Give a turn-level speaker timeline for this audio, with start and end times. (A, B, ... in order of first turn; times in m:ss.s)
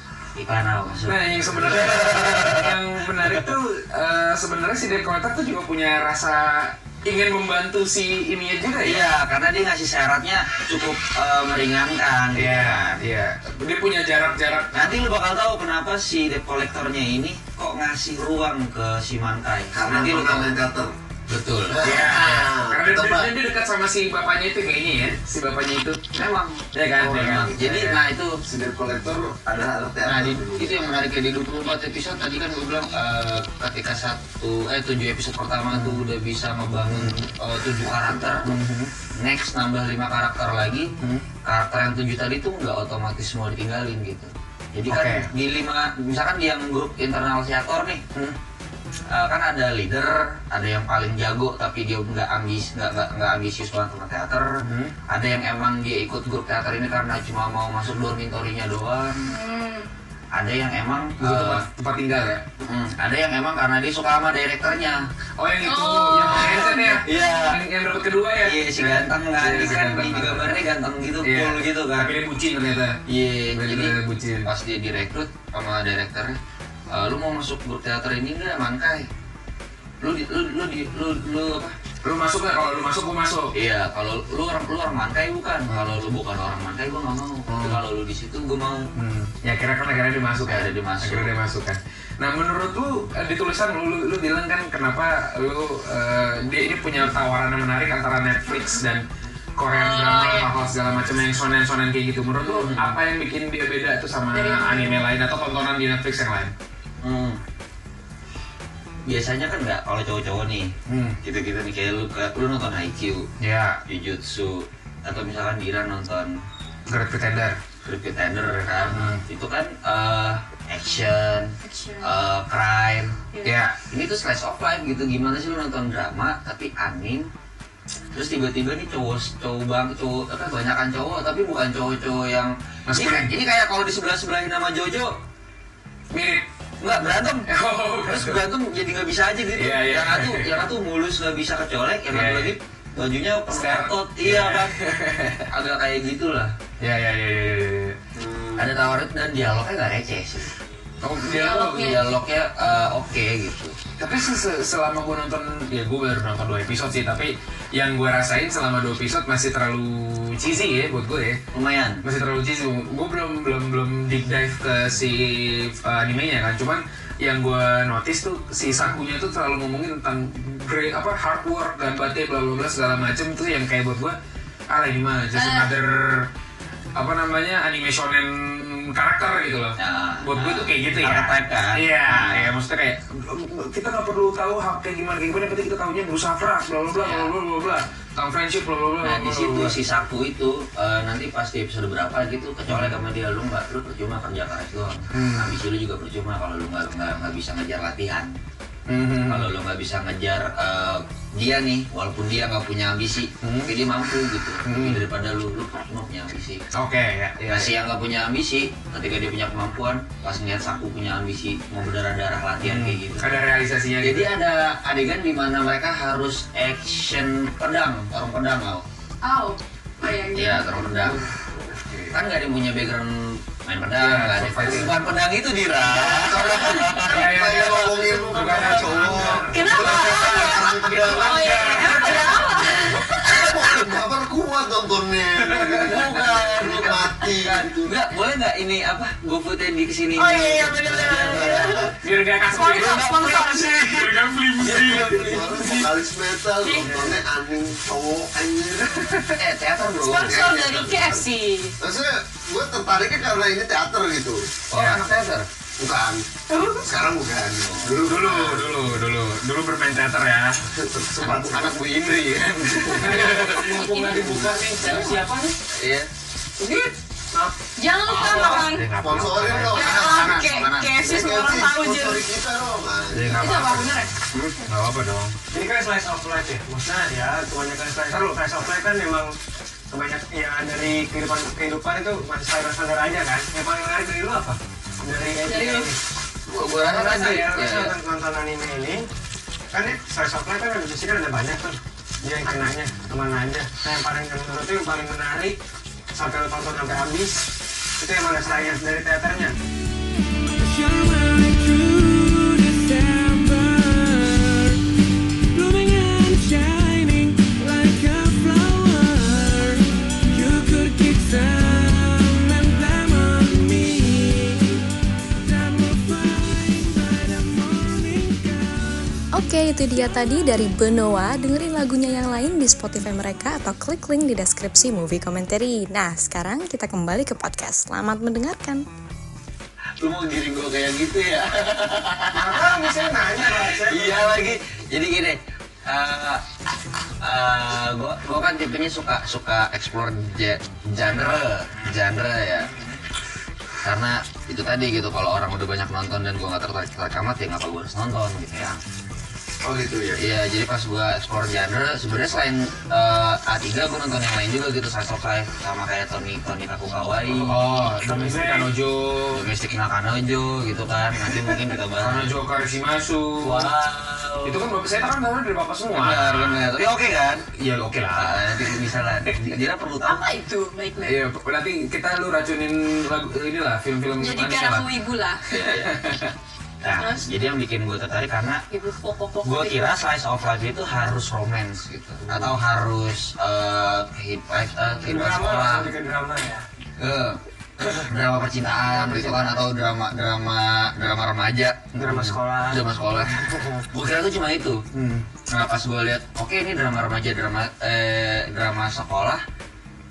0:00.4-0:03.3 A
0:01.1-0:09.0 B
0:08.8-0:13.0 A
0:12.3-0:14.9 B
0:14.7-0:20.6 A
0:19.7-0:20.9 C
0:21.3-0:22.2 A
0:21.7-0:23.3 C
0:21.8-0:26.1 B
0:26.1-0:28.4 A
0:26.7-0:28.0 B
0:27.0-0:27.8 C
0:28.4-0:30.9 C
0:30.0-0:38.6 A
0:35.7-0:36.0 B
0:38.4-0:38.9 B
0:39.1-0:40.9 A
0:41.0-0:41.2 B
0:41.4-0:48.0 A
0:44.9-0:45.3 B
0:49.1-0:59.3 A
0:54.6-0:54.9 B
0:59.2-0:59.9 D
1:00.3-1:01.7 A
1:01.2-1:02.4 B
1:02.6-1:05.1 A
1:05.4-1:10.6 B
1:05.6-1:07.2 D
1:06.3-1:07.6 A
1:08.4-1:12.1 A
1:11.2-1:13.0 B
1:13.1-1:16.4 A
1:13.5-1:14.5 B
1:16.9-1:19.1 A
1:20.0-1:21.8 A
1:22.0-1:23.5 B
1:23.5-1:28.9 A
1:25.7-1:26.0 B
1:27.5-1:27.8 B
1:29.0-1:39.0 B
1:30.4-1:31.3 A
1:39.6-1:46.5 B
1:39.7-1:40.5 D
1:42.4-1:43.0 A
1:44.3-1:45.1 D
1:47.0-1:47.4 A
1:49.1-1:53.3 A
1:50.9-1:51.2 B
1:53.4-1:53.8 B
1:53.9-1:56.4 A
1:56.9-1:57.6 B
1:57.8-2:03.2 A
1:58.4-1:59.2 B
2:01.6-2:02.2 D
2:03.3-2:03.6 D
2:03.4-2:03.8 B
2:03.9-2:07.3 A
2:08.1-2:15.2 A
2:12.9-2:13.3 B
2:16.1-2:16.4 B
2:16.8-2:24.8 A
2:17.4-2:18.5 B
2:19.6-2:20.6 B
2:22.1-2:22.6 B
2:23.5-2:25.5 B
2:25.5-2:26.6 A
2:26.8-2:28.0 B
2:28.2-2:28.7 C
2:28.6-2:30.5 A
2:31.0-2:32.1 B
2:31.3-2:32.0 D
2:31.5-2:33.8 A
2:34.0-2:41.4 B
2:41.5-2:42.0 A
2:42.0-2:54.2 B
2:54.7-2:56.3 B
2:55.3-2:55.7 D
2:57.0-3:09.8 B
2:59.8-3:02.5 A
3:07.0-3:07.3 A
3:09.0-3:18.4 A
3:12.7-3:13.0 B
3:15.1-3:15.5 B
3:18.9-3:19.5 B
3:19.3-3:26.6 A
3:23.4-3:23.7 B
3:24.6-3:25.0 B
3:26.7-3:27.8 B
3:27.5-3:33.4 A
3:32.6-3:34.3 B
3:34.0-3:38.8 A
3:39.2-3:41.2 D
3:40.3-3:41.2 A
3:41.8-3:42.1 C
3:42.1-3:47.8 A
3:44.0-3:45.0 B
3:45.8-3:57.9 C
3:46.9-3:52.8 B
3:48.4-3:49.4 A
3:49.5-3:53.4 D
3:51.3-3:52.2 A
3:53.2-3:53.8 A
3:55.5-3:56.0 B
3:55.6-4:01.9 A
4:00.2-4:01.9 D
4:00.9-4:01.9 C
4:02.0-4:05.9 B
4:02.5-4:04.1 D
4:04.6-4:09.2 C
4:06.6-4:07.0 D
4:09.3-4:10.7 A
4:10.0-4:11.8 D
4:10.2-4:11.3 C
4:11.8-4:14.5 C
4:14.7-4:15.5 A
4:14.7-4:15.0 B
4:15.8-4:16.2 C
4:16.5-4:16.9 D
4:16.8-4:18.9 C
4:17.6-4:18.0 A
4:18.0-4:20.6 B
4:20.7-4:21.8 C
4:21.2-4:23.5 A
4:22.9-4:25.2 B
4:23.0-4:25.5 E
4:23.4-4:25.0 D
4:25.7-4:26.1 A
4:26.6-4:26.9 D
4:27.8-4:28.9 D
4:28.1-4:30.4 C
4:28.2-4:29.9 B
4:28.2-4:28.6 A
4:29.5-4:31.0 A
4:29.7-4:32.2 D
4:31.0-4:33.8 C
4:33.1-4:34.0 B
4:33.4-4:34.1 D
4:34.3-4:34.6 A
4:34.7-4:35.3 B
4:35.5-4:39.3 E
4:38.1-4:38.4 B
4:39.9-4:46.0 E
4:45.4-4:45.9 D
4:46.5-4:48.0 A
4:46.8-4:49.0 E
4:49.7-4:55.6 E
4:56.1-4:59.6 E
5:00.5-5:04.8 E
5:05.5-5:14.9 E
5:15.4-5:19.1 E
5:19.3-5:28.8 F
5:30.0-5:33.1 A
5:32.3-5:34.6 E
5:33.8-5:36.4 A
5:37.2-5:42.7 A
5:43.8-5:48.8 A
5:49.6-5:50.2 C
5:50.2-5:57.6 A
5:57.4-5:59.4 B
5:58.0-5:58.7 E
5:59.3-6:02.4 A
6:02.0-6:03.7 B
6:03.4-6:04.6 A
6:04.4-6:06.7 B
6:05.9-6:07.5 A
6:07.6-6:08.7 B
6:08.1-6:10.3 A
6:09.3-6:09.5 B
6:10.0-6:11.2 D
6:11.0-6:14.9 B
6:14.2-6:15.4 D
6:15.5-6:16.0 A
6:15.5-6:16.4 B
6:16.8-6:18.6 A
6:17.0-6:17.3 D
6:18.7-6:19.9 D
6:19.4-6:25.9 A
6:25.0-6:26.6 E
6:27.0-6:27.4 A
6:27.9-6:34.8 A
6:32.0-6:32.9 E
6:33.4-6:33.8 E
6:34.9-6:35.2 B
6:35.5-6:39.4 A